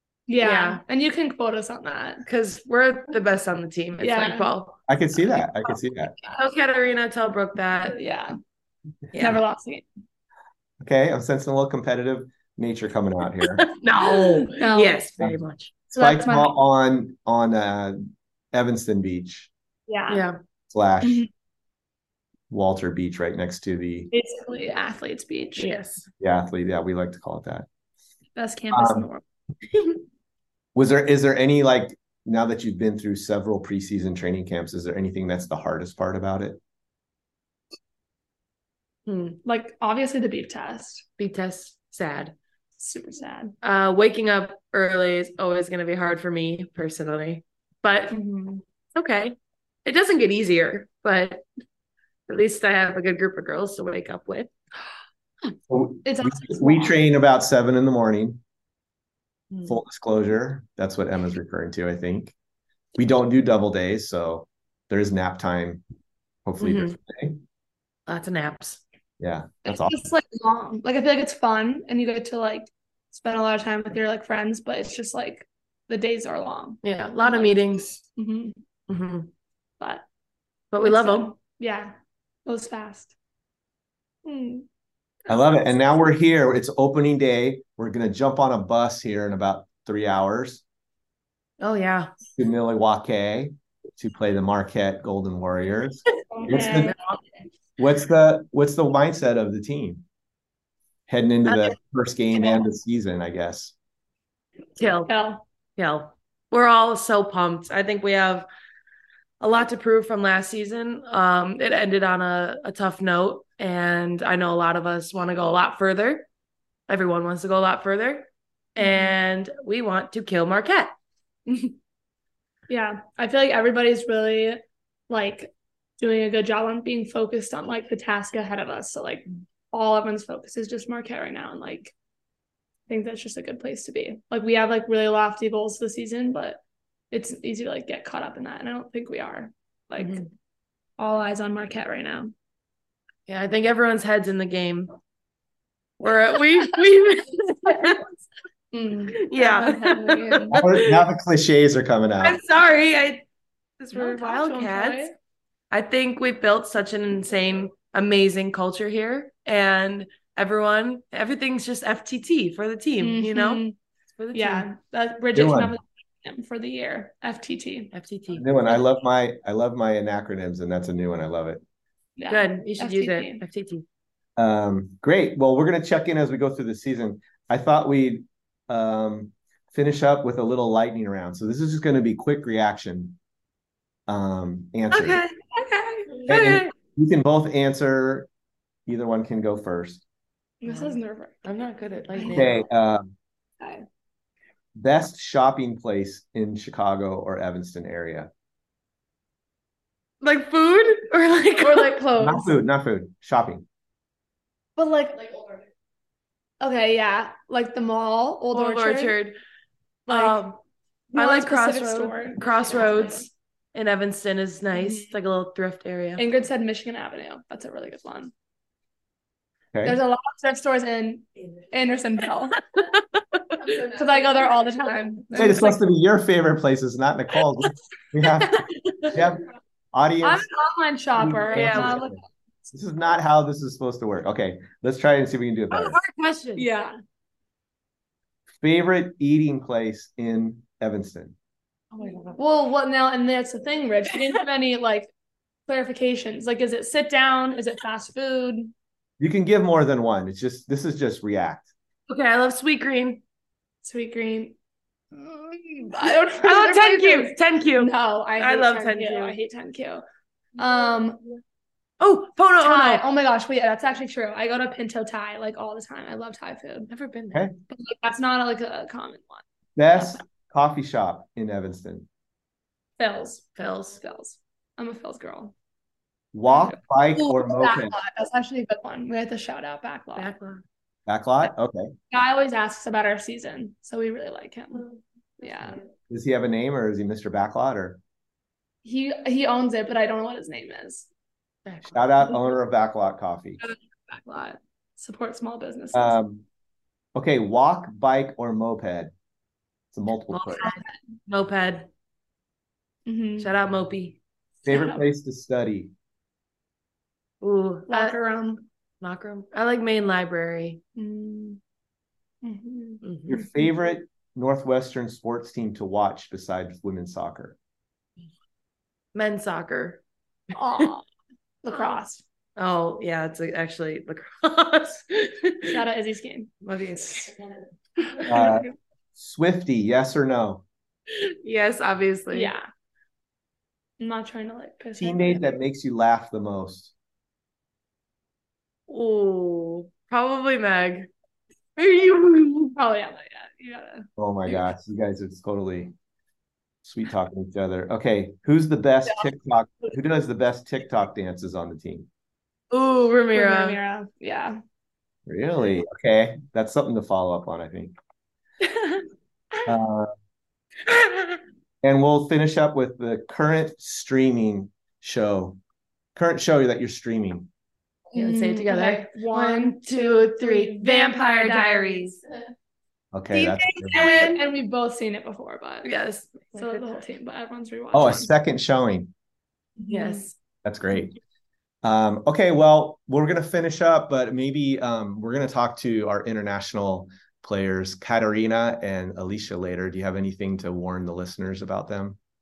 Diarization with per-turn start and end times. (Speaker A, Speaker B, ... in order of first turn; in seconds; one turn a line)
Speaker A: 0.3-2.2
Speaker B: 0.4-0.8
Speaker B: 2.2-4.8
Speaker A: 4.0-4.5
Speaker C: 4.9-6.3
Speaker B: 6.3-8.0
Speaker A: 7.9-8.3
Speaker B: 9.1-9.4
Speaker A: 9.2-9.9
Speaker C: 10.8-13.7
Speaker B: 13.6-15.7
Speaker A: 14.2-15.1
Speaker A: 15.9-16.6
Speaker C: 16.0-18.0
Speaker C: 18.5-19.5
Speaker A: 19.9-20.2
Speaker B: 20.1-20.4
Speaker C: 20.7-21.3
Speaker A: 21.0-21.3
Speaker C: 22.5-24.1
Speaker A: 24.1-25.8
Speaker B: 25.6-26.1
Speaker C: 26.2-27.7
Speaker A: 28.4-29.2
Speaker C: 28.7-29.1
Speaker C: 30.8-36.6
Speaker B: 39.1-39.4
Speaker A: 39.4-41.0
Speaker B: 41.2-42.3
Speaker A: 42.8-43.5
Speaker B: 43.6-48.2
Speaker A: 48.1-48.6
Speaker B: 49.0-51.5
Speaker B: 52.3-54.5
Speaker C: 55.7-58.4
Speaker A: 56.0-57.0
Speaker C: 59.7-62.4
Speaker C: 63.0-65.8
Speaker C: 66.5-67.4
Speaker B: 66.6-67.0
Speaker B: 68.1-68.8
Speaker C: 69.2-70.0
Speaker A: 69.7-77.6
Speaker B: 76.8-78.0
Speaker A: 78.2-78.6
Speaker B: 78.9-79.3
Speaker A: 79.8-80.1
Speaker B: 80.7-81.3
Speaker A: 80.8-81.9
Speaker A: 82.5-83.1
Speaker A: 84.2-84.7
Speaker A: 85.3-86.1
Speaker C: 85.3-90.6
Speaker B: 91.6-92.1
Speaker C: 92.4-96.9
Speaker A: 96.3-97.0
Speaker B: 96.5-97.2
Speaker C: 97.8-100.0
Speaker C: 101.1-103.7
Speaker B: 104.8-105.1
Speaker A: 104.8-105.4
Speaker B: 105.8-108.5
Speaker B: 109.4-116.3
Speaker B: 116.9-120.9
Speaker A: 118.8-119.1
Speaker A: 122.7-131.9
Speaker A: 132.9-136.6
Speaker A: 137.1-140.3
Speaker B: 140.0-140.3
Speaker A: 141.0-142.3
Speaker B: 143.3-144.9
Speaker B: 146.0-148.1
Speaker A: 148.7-150.6
Speaker B: 149.1-151.0
Speaker C: 150.5-152.4
Speaker B: 152.2-153.3
Speaker B: 153.8-155.1
Speaker A: 153.9-155.1
Speaker B: 155.7-163.7
Speaker A: 163.0-163.8
Speaker B: 164.2-164.7
Speaker A: 164.3-167.9
Speaker C: 165.3-165.7
Speaker B: 167.9-168.5
Speaker C: 168.3-171.6
Speaker A: 168.6-168.8
Speaker A: 172.2-173.4
Speaker B: 172.3-173.8
Speaker C: 174.4-183.2
Speaker C: 184.1-185.2
Speaker B: 184.9-186.7
Speaker C: 186.3-188.3
Speaker C: 188.9-190.0
Speaker A: 190.6-191.5
Speaker B: 190.7-192.6
Speaker A: 192.1-192.5
Speaker C: 192.3-193.2
Speaker A: 193.6-193.8
Speaker C: 194.8-198.3
Speaker B: 200.2-202.5
Speaker C: 202.2-203.7
Speaker A: 204.8-205.6
Speaker A: 206.6-209.2
Speaker B: 208.5-209.3
Speaker B: 210.1-210.6
Speaker A: 210.1-210.4
Speaker A: 211.1-213.2
Speaker B: 211.2-216.2
Speaker A: 214.7-215.1
Speaker A: 216.2-218.3
Speaker C: 219.7-220.0
Speaker A: 219.8-222.6
Speaker B: 222.8-223.6
Speaker A: 223.6-225.9
Speaker C: 225.3-228.6
Speaker B: 228.4-229.2
Speaker C: 229.1-230.5
Speaker A: 230.2-232.2
Speaker C: 231.2-236.0
Speaker B: 231.5-232.0
Speaker B: 235.7-236.7
Speaker A: 236.6-236.9
Speaker C: 238.6-241.4
Speaker B: 241.9-242.4
Speaker A: 242.4-245.1
Speaker A: 245.7-248.7
Speaker C: 249.2-251.7
Speaker B: 252.1-253.2
Speaker A: 253.8-254.6
Speaker A: 255.1-260.0
Speaker B: 256.1-259.4
Speaker A: 260.6-261.2
Speaker B: 262.0-263.1
Speaker A: 262.6-266.9
Speaker B: 266.9-267.4
Speaker A: 267.7-269.4
Speaker C: 269.8-272.1
Speaker A: 269.9-270.2
Speaker A: 273.0-275.5
Speaker B: 273.6-274.0
Speaker C: 276.3-278.0
Speaker A: 276.5-280.3
Speaker B: 280.2-280.6
Speaker C: 281.1-281.9
Speaker A: 282.1-285.8
Speaker C: 286.1-288.0
Speaker A: 288.8-291.1
Speaker B: 291.7-292.1
Speaker C: 291.9-293.6
Speaker A: 293.6-296.2
Speaker C: 295.9-296.4
Speaker C: 297.1-299.1
Speaker C: 299.9-300.7
Speaker B: 300.3-301.9
Speaker A: 303.1-303.5
Speaker B: 303.4-304.2
Speaker C: 304.6-305.9
Speaker A: 304.7-305.0
Speaker B: 307.4-308.2
Speaker A: 307.9-308.6
Speaker B: 309.0-310.8
Speaker A: 311.0-311.6
Speaker A: 312.4-313.0
Speaker B: 313.0-313.4
Speaker C: 313.3-317.6
Speaker B: 319.1-320.0
Speaker A: 320.5-321.0
Speaker A: 321.6-322.2
Speaker B: 322.6-325.8
Speaker A: 325.7-326.5
Speaker B: 326.6-327.4
Speaker A: 328.1-328.7
Speaker C: 328.3-330.6
Speaker B: 331.4-332.5
Speaker A: 332.3-332.6
Speaker A: 334.0-335.6
Speaker C: 335.0-336.9
Speaker B: 338.9-341.1
Speaker B: 341.8-342.8
Speaker A: 342.8-344.6
Speaker C: 344.2-345.9
Speaker C: 346.8-352.1
Speaker B: 352.7-353.8
Speaker A: 353.3-354.6
Speaker C: 355.3-357.9
Speaker B: 358.6-359.1
Speaker C: 359.7-360.1
Speaker B: 360.9-361.4
Speaker C: 361.8-365.6
Speaker C: 366.1-367.5
Speaker B: 368.1-372.2
Speaker A: 368.1-372.2
Speaker C: 373.1-374.1
Speaker B: 373.3-374.4
Speaker A: 373.9-375.9
Speaker B: 375.8-376.8
Speaker A: 376.5-378.3
Speaker C: 377.9-379.1
Speaker A: 379.8-380.2
Speaker B: 379.9-380.3
Speaker C: 380.6-381.1
Speaker C: 381.8-392.2